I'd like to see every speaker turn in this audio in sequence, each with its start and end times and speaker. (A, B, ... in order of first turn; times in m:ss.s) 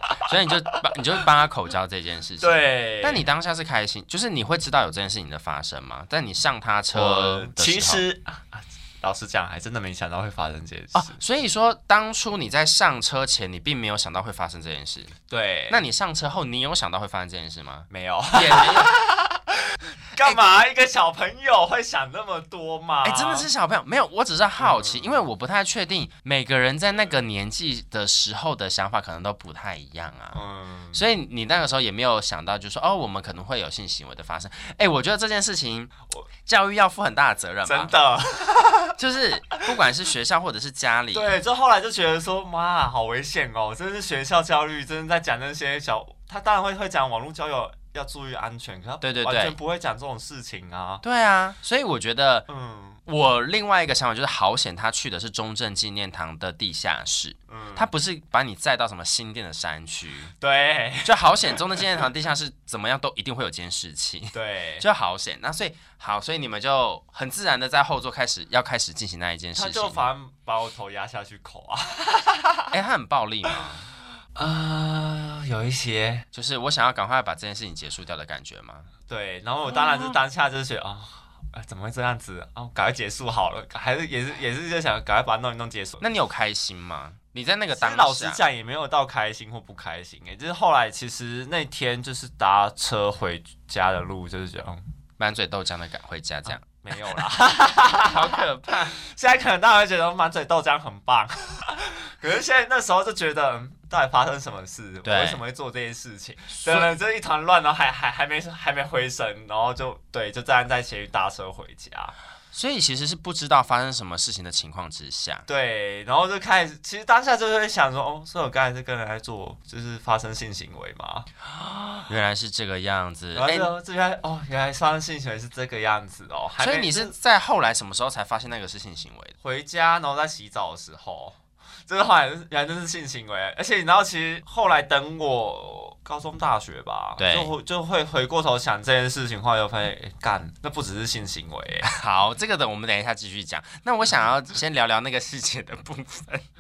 0:00.3-0:08.0 A
0:02.4-0:03.3 B
0:06.9-0:11.2 B
0:10.9-0:15.1 A
0:15.3-0:15.8 B
0:15.7-0:18.9 A
0:17.9-0:23.5 B
0:23.0-0:30.4 A
0:24.6-0:25.2 B
0:30.3-0:31.0 B
0:30.9-0:35.9 A
0:36.5-0:37.9 A
0:37.7-0:39.0 B
0:39.0-0:41.3 A
0:41.1-0:51.0 B
0:49.0-0:49.6 A
0:51.0-0:52.5 A
0:52.5-0:53.0 B
0:53.1-1:00.3 A
0:57.5-0:57.9 B
1:00.4-1:01.9 B
1:01.0-1:10.0 A
1:04.3-1:04.8 B
1:09.6-1:12.7 B
1:12.7-1:13.9 A
1:14.4-1:16.2 B
1:16.3-1:18.9 A
1:19.1-1:26.0 B
1:19.7-1:20.2 A
1:26.0-1:28.4 A
1:27.7-1:34.8 B
1:35.2-1:36.6 A
1:36.5-1:38.2 B
1:38.0-1:39.0 A
1:38.9-1:52.2 B
1:45.0-1:45.4 A
1:46.6-1:46.9 A
1:52.5-1:55.4 A
1:55.5-2:01.3 B
2:02.0-2:03.7 A
2:03.3-2:07.2 B
2:06.6-2:09.3 A
2:09.4-2:21.9 B
2:17.2-2:17.5 A
2:21.8-2:26.4 A